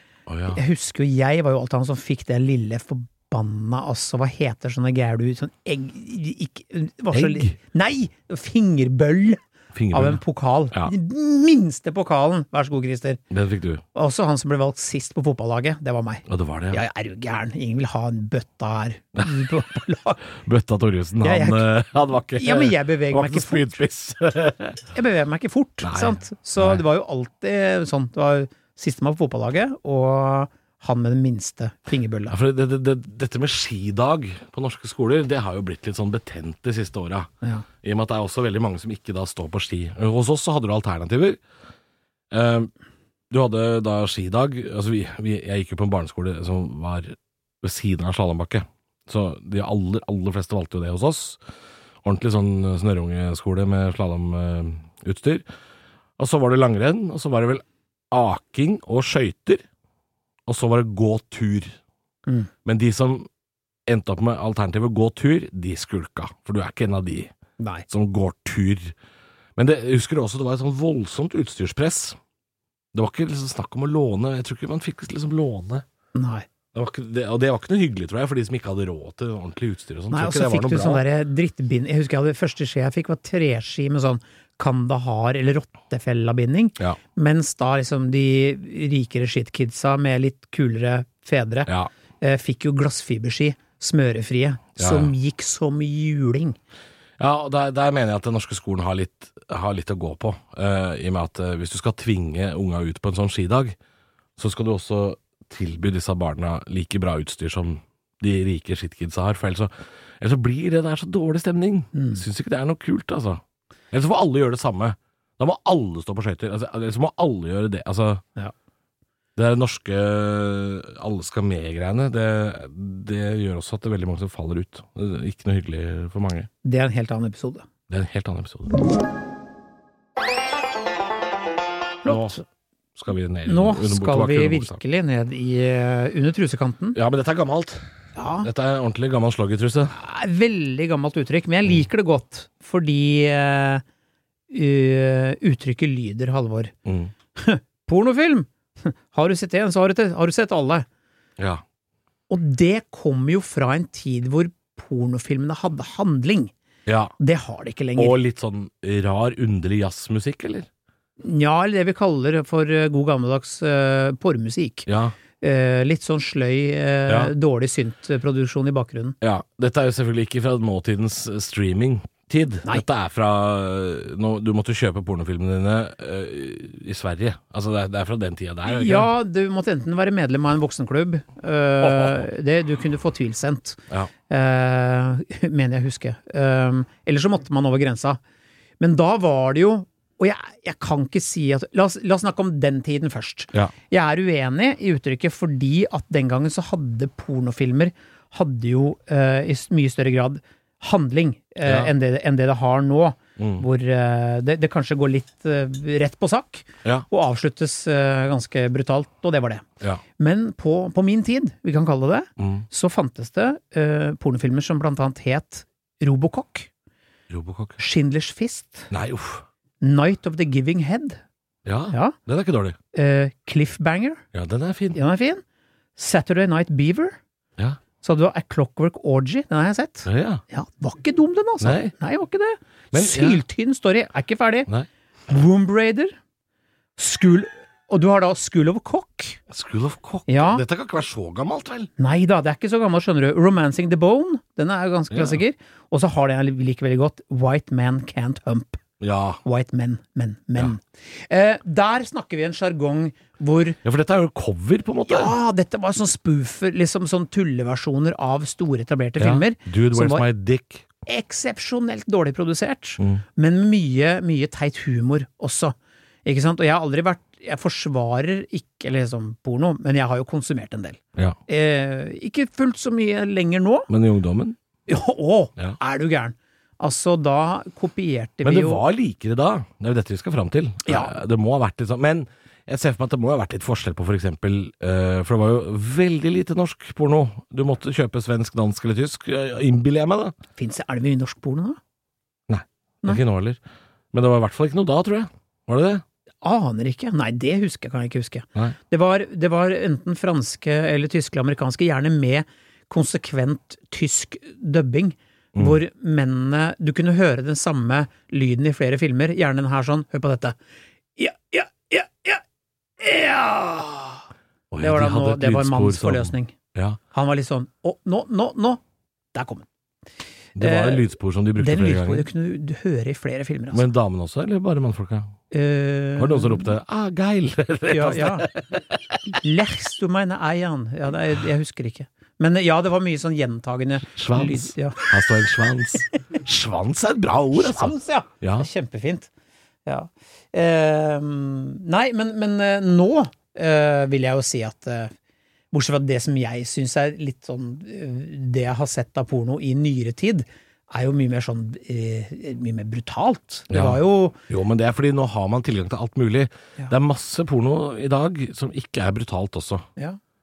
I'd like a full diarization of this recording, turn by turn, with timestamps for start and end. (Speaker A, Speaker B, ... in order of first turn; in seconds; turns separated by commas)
Speaker A: 0.3-0.6, Speaker B: 0.5-9.4, Speaker A: 7.1-7.6, Speaker A: 9.7-10.9, Speaker B: 9.9-13.2, Speaker A: 13.3-13.8, Speaker B: 13.9-20.2, Speaker A: 16.3-16.8, Speaker A: 20.4-24.8, Speaker B: 21.2-21.7, Speaker B: 22.4-23.8, Speaker B: 24.9-32.4, Speaker A: 25.8-26.8, Speaker A: 32.3-37.3, Speaker A: 37.8-41.4, Speaker A: 42.3-42.7, Speaker A: 43.3-51.4, Speaker A: 52.0-55.4, Speaker A: 56.2-59.6, Speaker A: 60.5-61.8, Speaker A: 62.6-63.3, Speaker A: 63.9-67.3, Speaker B: 67.6-67.8, Speaker A: 67.9-68.9, Speaker A: 69.6-72.2, Speaker A: 72.9-75.8, Speaker B: 76.1-76.5, Speaker A: 76.7-81.0, Speaker B: 80.1-96.6, Speaker A: 94.8-95.1, Speaker A: 97.2-103.8, Speaker A: 104.4-118.2, Speaker B: 111.9-112.2, Speaker A: 119.4-126.5, Speaker B: 126.6-127.7, Speaker A: 127.9-128.7, Speaker A: 132.1-132.4, Speaker B: 132.1-132.4, Speaker A: 132.9-134.8, Speaker B: 133.4-137.0, Speaker A: 136.9-137.9, Speaker B: 138.1-138.5, Speaker A: 138.4-139.9, Speaker B: 139.9-143.8, Speaker B: 144.5-146.7, Speaker A: 146.8-147.1, Speaker B: 147.4-150.9, Speaker A: 151.4-151.6, Speaker B: 152.3-156.5, Speaker A: 156.9-157.1, Speaker B: 157.2-158.2, Speaker A: 157.9-160.7, Speaker B: 161.2-164.9, Speaker A: 164.9-165.1, Speaker B: 165.4-169.2, Speaker A: 167.1-167.3, Speaker A: 169.2-179.1, Speaker B: 178.6-188.2, Speaker A: 181.8-182.2, Speaker B: 188.8-209.7, Speaker A: 201.6-201.9, Speaker A: 203.4-203.7, Speaker B: 210.2-216.7, Speaker A: 212.4-212.7, Speaker A: 217.3-217.8, Speaker B: 217.8-218.9, Speaker A: 218.9-219.4, Speaker B: 219.8-221.2, Speaker A: 221.6-222.8, Speaker B: 221.9-222.2, Speaker B: 222.9-224.2, Speaker A: 224.3-225.0, Speaker B: 224.9-225.4, Speaker B: 225.9-227.2, Speaker B: 228.0-234.7, Speaker A: 230.1-230.4, Speaker A: 231.6-231.9, Speaker A: 232.9-233.4, Speaker B: 235.3-236.1, Speaker B: 237.0-239.4, Speaker A: 239.5-241.9, Speaker B: 240.3-240.6, Speaker B: 242.0-248.8, Speaker A: 245.1-245.4, Speaker A: 249.0-249.4, Speaker B: 249.4-253.8, Speaker A: 253.8-255.4, Speaker B: 255.1-260.2, Speaker A: 259.2-260.9, Speaker B: 261.1-273.9, Speaker A: 273.9-274.6, Speaker B: 274.9-278.8, Speaker A: 278.4-290.3, Speaker B: 280.9-281.1, Speaker B: 290.6-291.8, Speaker A: 292.5-293.6, Speaker A: 294.1-296.0, Speaker B: 296.4-310.6, Speaker B: 311.2-312.4, Speaker B: 313.0-314.2, Speaker A: 314.7-317.0, Speaker B: 314.8-316.6, Speaker B: 317.1-318.8, Speaker B: 319.3-319.7, Speaker A: 320.6-322.3, Speaker B: 320.6-323.9, Speaker A: 323.7-325.4, Speaker B: 325.5-326.7, Speaker A: 326.2-329.4, Speaker B: 327.9-328.5, Speaker B: 329.4-335.1, Speaker A: 334.0-338.7, Speaker B: 337.5-339.3, Speaker B: 339.9-345.1, Speaker B: 345.7-354.4, Speaker A: 353.7-359.9